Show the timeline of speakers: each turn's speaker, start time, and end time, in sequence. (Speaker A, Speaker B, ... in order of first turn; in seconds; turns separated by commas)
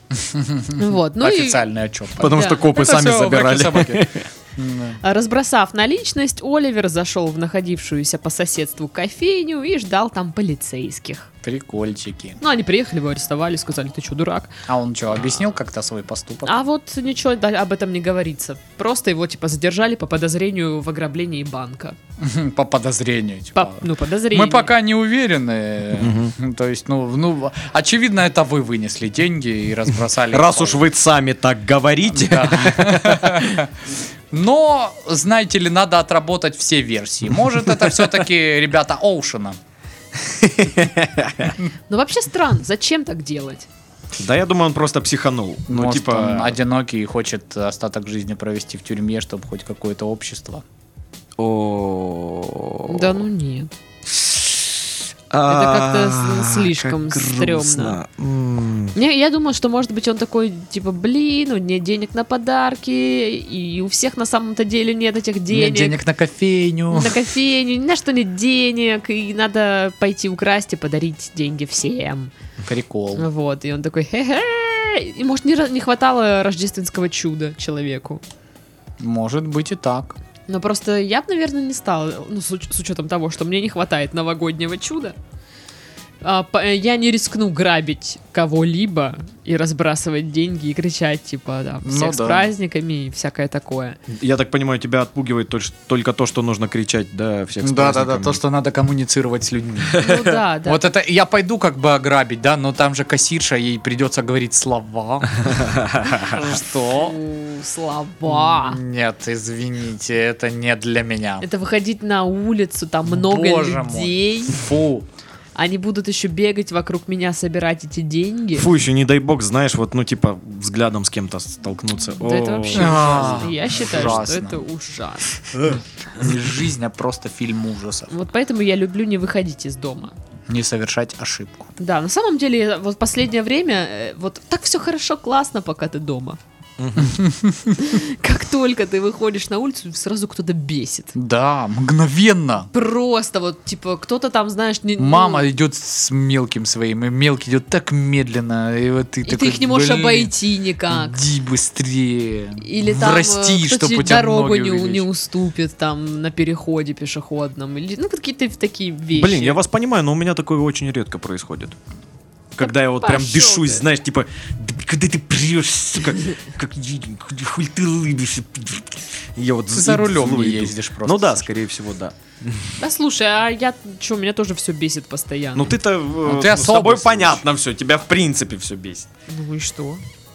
Speaker A: 0.2-5.0, Speaker B: 0.8-1.7, Speaker C: 2.2-4.3, Speaker B: 2.2-2.7, Speaker B: 5.0-11.3, Speaker A: 11.4-12.4, Speaker B: 12.4-14.6, Speaker A: 14.7-16.6, Speaker B: 16.4-22.0, Speaker A: 22.2-30.8, Speaker B: 23.6-24.7, Speaker C: 26.0-26.3, Speaker C: 30.3-33.6, Speaker A: 32.1-33.7, Speaker A: 34.3-39.6, Speaker C: 40.3-41.5, Speaker B: 41.9-43.7, Speaker C: 44.2-46.6, Speaker A: 45.7-50.6, Speaker C: 51.4-53.2, Speaker B: 52.9-53.7, Speaker C: 54.2-54.8, Speaker C: 55.3-59.0, Speaker B: 55.5-58.0, Speaker B: 59.0-66.0, Speaker A: 65.5-67.2, Speaker B: 66.9-72.3, Speaker A: 72.6-73.3, Speaker B: 73.2-78.2, Speaker A: 79.0-80.2, Speaker B: 80.5-85.2, Speaker B: 86.2-94.0, Speaker A: 91.8-92.5, Speaker C: 94.1-98.4, Speaker A: 97.6-107.2, Speaker C: 99.8-100.2, Speaker B: 100.0-100.8, Speaker C: 105.7-106.3, Speaker B: 106.8-108.8, Speaker A: 108.3-111.5, Speaker B: 111.4-114.7, Speaker A: 113.1-115.1, Speaker B: 115.5-118.7, Speaker C: 118.5-124.2, Speaker B: 122.2-125.4, Speaker A: 122.7-124.6, Speaker C: 125.5-125.8, Speaker A: 126.2-128.1, Speaker B: 128.1-130.1, Speaker A: 130.5-131.7, Speaker B: 131.8-136.4, Speaker C: 136.8-137.2, Speaker A: 137.0-137.8, Speaker B: 137.8-141.2, Speaker A: 141.2-142.7, Speaker B: 142.7-145.5, Speaker A: 145.0-150.3, Speaker B: 149.2-151.2, Speaker A: 150.9-155.1, Speaker B: 152.6-159.6, Speaker C: 159.1-161.8, Speaker C: 162.6-172.8, Speaker B: 162.6-163.8, Speaker A: 169.7-171.5, Speaker B: 172.8-175.7, Speaker C: 175.6-179.1, Speaker A: 176.2-177.4, Speaker B: 179.3-180.0